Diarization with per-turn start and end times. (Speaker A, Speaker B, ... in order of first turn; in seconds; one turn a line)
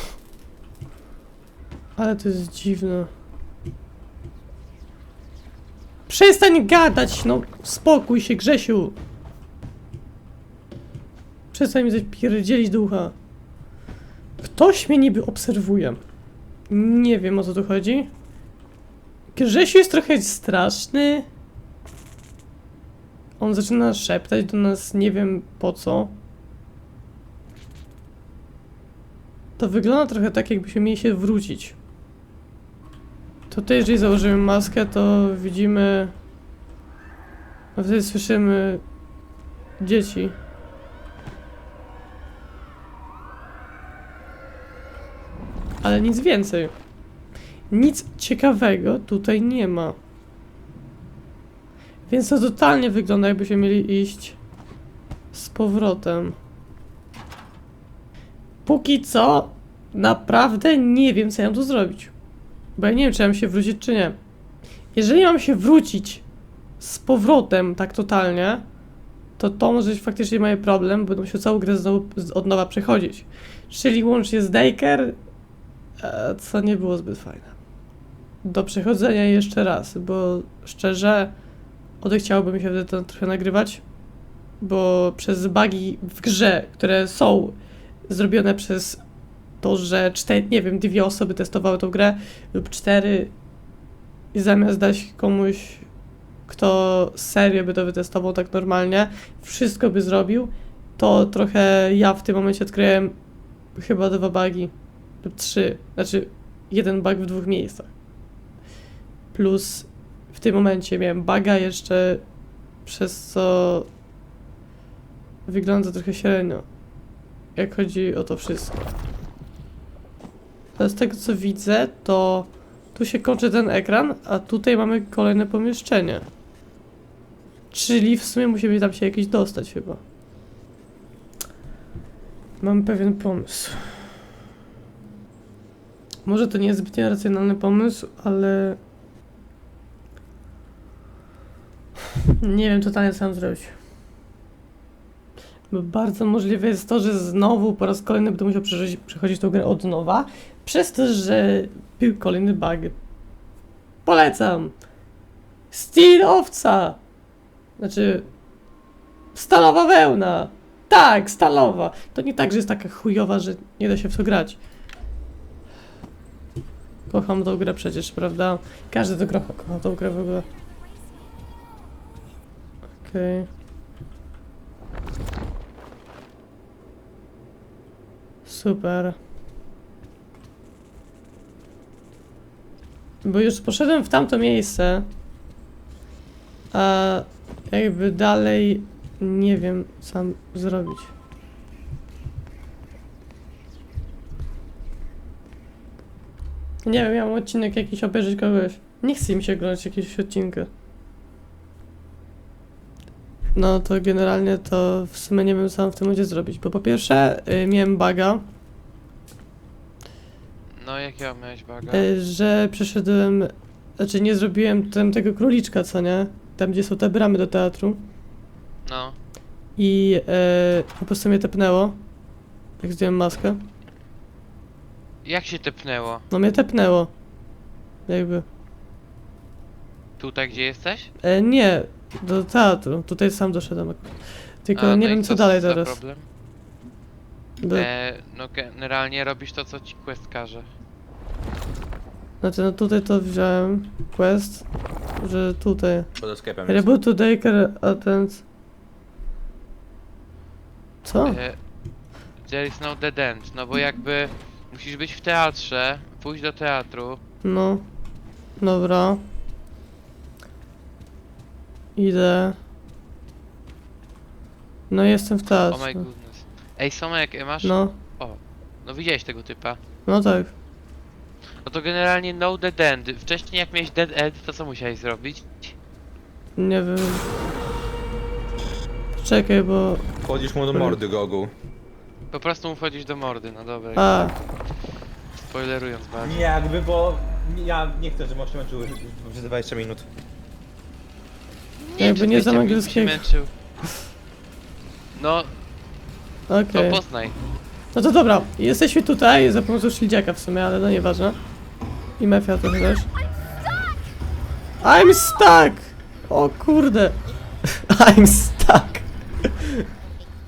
Speaker A: 2.0-3.1
Speaker A: 6.1-9.0
Speaker A: 11.5-13.2
Speaker A: 14.4-16.0
Speaker A: 16.7-18.1
Speaker A: 19.4-21.3
Speaker A: 23.4-26.2
Speaker A: 29.6-31.8
Speaker A: 33.5-36.1
Speaker A: 37.8-38.8
Speaker A: 39.8-40.4
Speaker A: 45.8-46.7
Speaker A: 47.7-50.0
Speaker A: 52.1-54.4
Speaker A: 55.3-56.4
Speaker A: 58.6-62.1
Speaker A: 62.8-64.2
Speaker A: 64.9-66.2
Speaker A: 66.8-68.7
Speaker A: 69.4-75.2
Speaker A: 76.0-77.6
Speaker A: 78.4-81.3
Speaker A: 82.0-83.8
Speaker A: 84.6-87.6
Speaker A: 88.1-89.0
Speaker A: 89.6-93.3
Speaker A: 94.3-95.9
Speaker A: 96.5-103.2
Speaker A: 103.8-104.7
Speaker A: 105.2-107.9
Speaker A: 109.3-112.2
Speaker A: 112.8-113.9
Speaker A: 115.5-116.7
Speaker A: 117.6-118.8
Speaker A: 120.8-126.2
Speaker A: 127.7-130.0
Speaker A: 132.6-134.1
Speaker A: 136.2-138.8
Speaker A: 142.3-143.8
Speaker A: 145.7-153.0
Speaker A: 154.1-154.7
Speaker A: 155.7-157.0
Speaker A: 157.8-158.3
Speaker A: 159.3-164.6
Speaker A: 167.1-170.5
Speaker A: 173.0-173.5
Speaker A: 178.4-179.2
Speaker A: 183.2-185.1
Speaker A: 186.7-191.1
Speaker A: 196.8-200.7
Speaker A: 203.6-208.4
Speaker B: 210.8-212.1
Speaker A: 211.9-218.0
Speaker B: 218.9-219.2
Speaker A: 219.8-222.0
Speaker A: 222.8-223.6
Speaker B: 225.2-226.2
Speaker A: 226.3-227.1
Speaker A: 228.1-228.4
Speaker B: 230.2-231.1
Speaker A: 231.2-234.1
Speaker A: 234.7-236.0
Speaker B: 234.8-236.3
Speaker A: 237.6-237.9
Speaker B: 237.7-240.7
Speaker A: 242.4-246.1
Speaker C: 246.2-246.9
Speaker A: 246.7-248.4
Speaker A: 251.0-251.4
Speaker B: 251.2-251.6
Speaker B: 252.4-257.2
Speaker A: 257.4-257.9
Speaker A: 258.6-259.2
Speaker A: 262.0-262.6
Speaker A: 264.9-266.1
Speaker B: 265.7-269.8
Speaker A: 267.6-268.0
Speaker A: 270.1-270.5
Speaker B: 271.6-275.8
Speaker A: 276.6-277.3
Speaker A: 279.2-280.1
Speaker C: 280.2-281.5
Speaker B: 282.3-284.3
Speaker A: 284.0-284.4
Speaker B: 285.5-286.6
Speaker C: 286.2-290.1
Speaker B: 291.8-293.5
Speaker A: 292.0-293.3
Speaker B: 295.1-295.6
Speaker A: 296.5-297.0
Speaker B: 296.7-297.4
Speaker A: 297.9-301.4
Speaker A: 302.2-303.1
Speaker A: 304.8-309.9